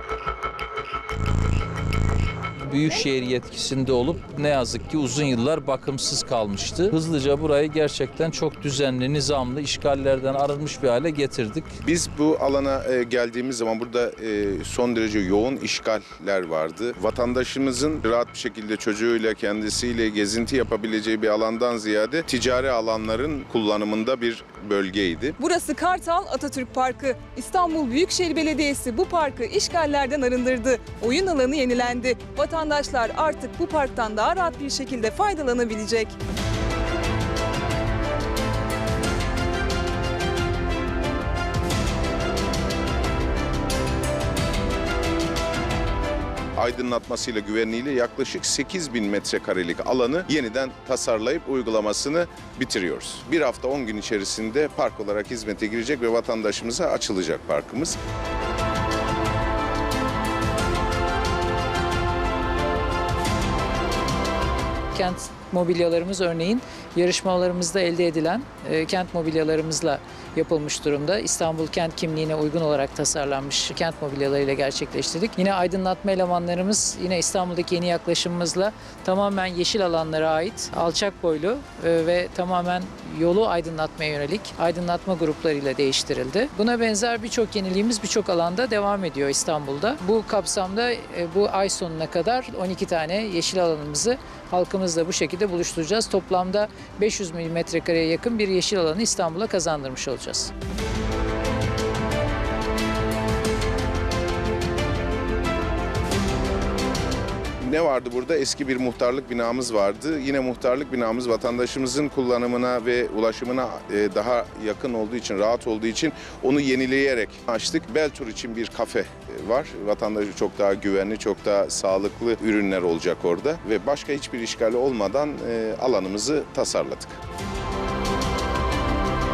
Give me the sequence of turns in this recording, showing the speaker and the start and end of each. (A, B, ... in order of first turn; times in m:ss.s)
0:02.6-0:11.7 A
0:11.8-0:25.4 B
0:25.4-0:36.2 C
0:46.6-0:58.0 B
1:04.9-1:40.5 D
1:47.6-2:07.2 B